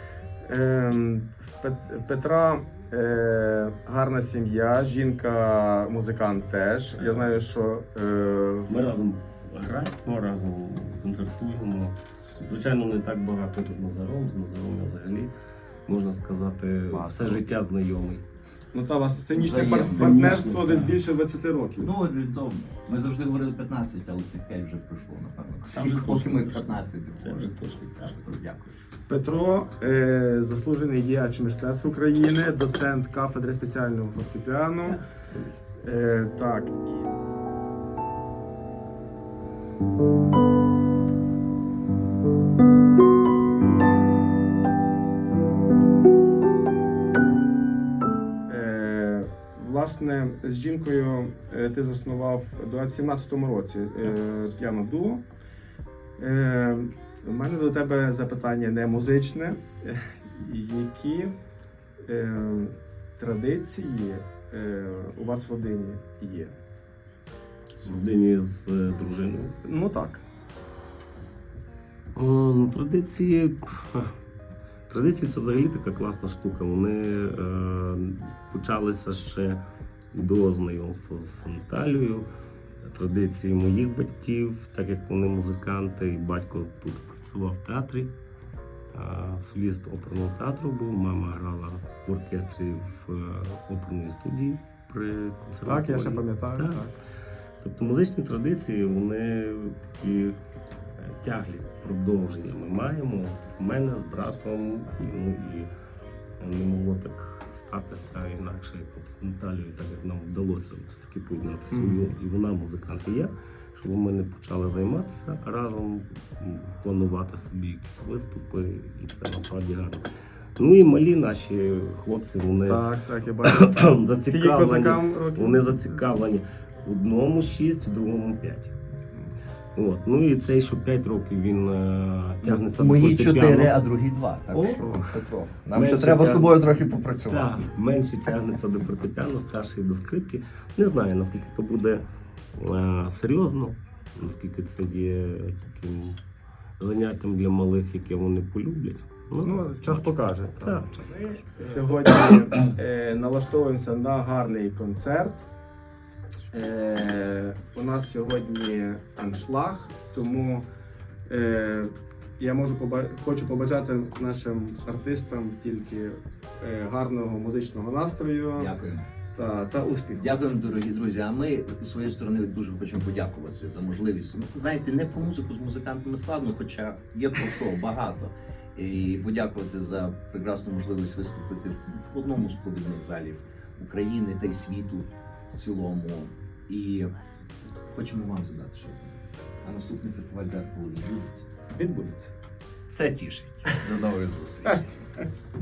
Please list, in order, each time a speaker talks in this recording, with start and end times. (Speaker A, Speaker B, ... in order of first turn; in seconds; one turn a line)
Speaker A: 0.4-8.7
Speaker B: 6.9-7.4
Speaker B: 8.7-15.3
Speaker B: 15.8-18.2
Speaker C: 16.9-17.4
Speaker A: 18.7-21.9
Speaker C: 19.3-20.5
Speaker B: 19.8-21.0
Speaker C: 21.8-28.8
Speaker B: 25.7-28.2
Speaker A: 29.1-35.0
Speaker B: 34.9-35.5
Speaker A: 35.8-37.1
Speaker A: 48.5-55.2
Speaker A: 56.2-61.3
Speaker A: 62.0-66.5
Speaker B: 67.8-69.5
Speaker A: 69.6-70.2
Speaker B: 72.1-74.1
Speaker B: 74.9-79.6
Speaker B: 80.1-82.3
Speaker B: 82.8-88.1
Speaker B: 88.9-96.8
Speaker A: 95.6-97.0
Speaker B: 97.6-100.4
Speaker B: 101.0-105.7
Speaker B: 106.4-120.0
Speaker A: 111.7-112.0
Speaker B: 120.6-122.9
Speaker A: 122.6-126.1
Speaker B: 123.4-128.7
Speaker B: 129.7-133.8
Speaker C: 132.4-137.6
Speaker A: 134.5-135.0
Speaker B: 135.7-142.0
Speaker B: 142.5-146.2
Speaker B: 146.8-151.5
Speaker A: 149.4-155.4
Speaker A: 156.5-160.7
Speaker A: 161.3-168.7
Speaker C: 168.6-169.1
Speaker A: 169.3-170.4
Speaker C: 170.2-187.1
Speaker C: 187.9-191.5
Speaker A: 191.7-192.3
Speaker C: 192.9-194.9